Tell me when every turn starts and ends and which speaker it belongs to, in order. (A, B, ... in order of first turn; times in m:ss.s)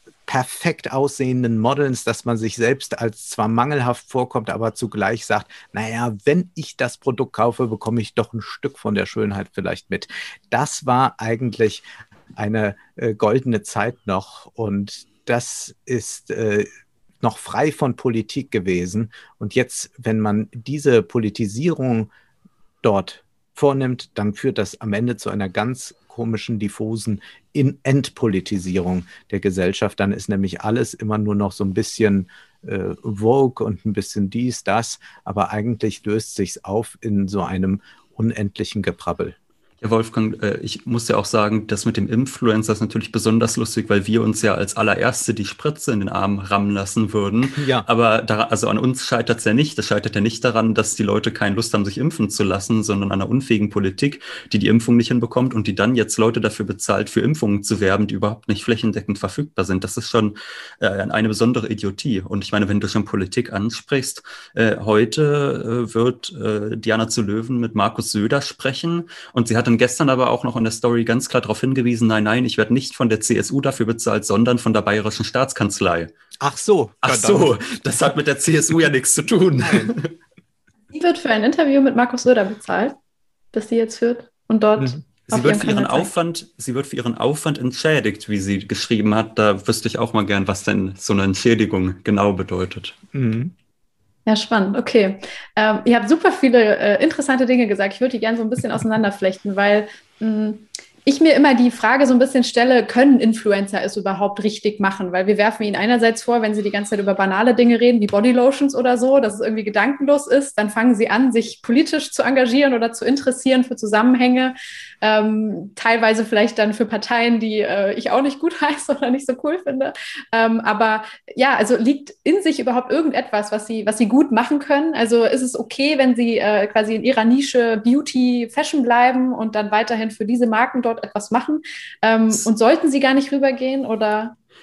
0:00.3-0:11.8 A
0:12.4-0:16.7 A
0:17.2-0:22.1 A
0:22.8-0:39.4 A
0:39.8-1:16.1 B
0:47.6-0:47.8 A
1:16.4-1:17.6 A
1:17.0-1:20.1 B
1:19.6-1:19.9 A
1:20.9-1:22.9 C
1:23.5-1:26.1 C
1:25.3-1:33.0 B
1:33.1-1:33.5 A
1:34.2-2:14.3 C